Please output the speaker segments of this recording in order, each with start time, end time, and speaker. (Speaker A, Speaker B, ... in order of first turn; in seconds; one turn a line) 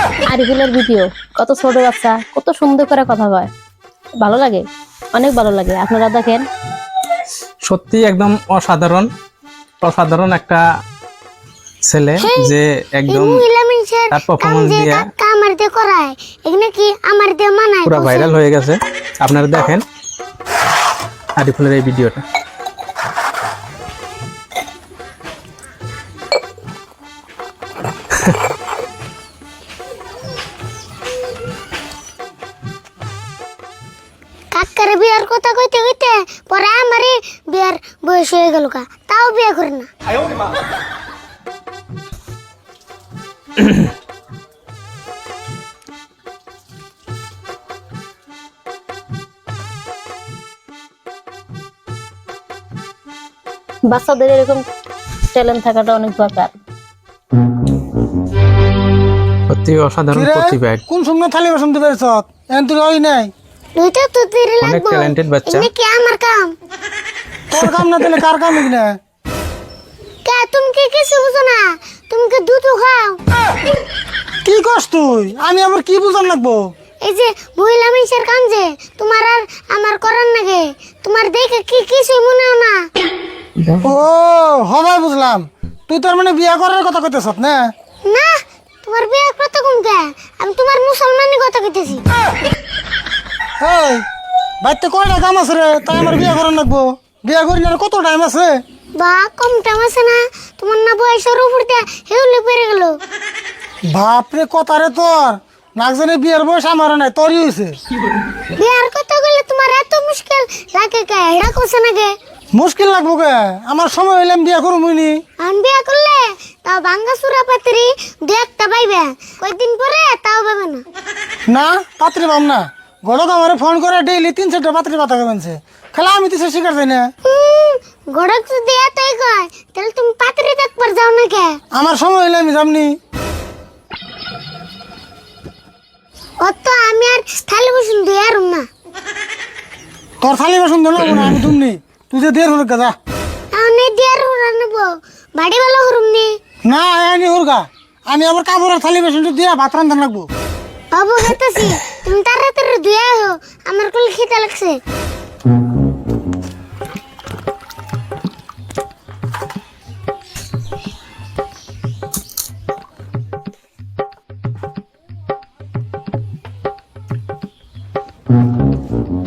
Speaker A: 0.2-3.5
Speaker A: 4.2-6.4
Speaker B: 7.6-9.1
Speaker B: 9.8-10.6
Speaker B: 11.8-13.3
Speaker C: 12.2-12.5
Speaker C: 13.1-18.3
Speaker B: 14.1-15.0
Speaker B: 17.8-19.8
Speaker B: 21.4-22.2
Speaker C: 34.5-39.9
Speaker A: 53.9-54.6
Speaker A: 55.3-56.5
Speaker B: 59.5-60.8
Speaker D: 60.1-63.3
Speaker C: 63.8-66.5
Speaker B: 64.6-65.7
Speaker D: 67.5-68.9
Speaker C: 70.2-73.2
Speaker D: 74.4-76.6
Speaker C: 77.0-82.8
Speaker D: 83.8-87.6
Speaker C: 88.1-92.0
Speaker D: 93.6-94.0
Speaker D: 94.6-98.6
Speaker C: 99.0-103.0
Speaker D: 103.9-107.7
Speaker C: 108.5-112.1
Speaker D: 112.5-115.2
Speaker C: 115.4-120.8
Speaker D: 121.5-127.0
Speaker C: 127.2-131.6
Speaker D: 131.7-132.9
Speaker C: 136.4-138.7
Speaker D: 140.2-142.9
Speaker C: 143.5-146.3
Speaker D: 146.7-150.3
Speaker C: 150.9-154.8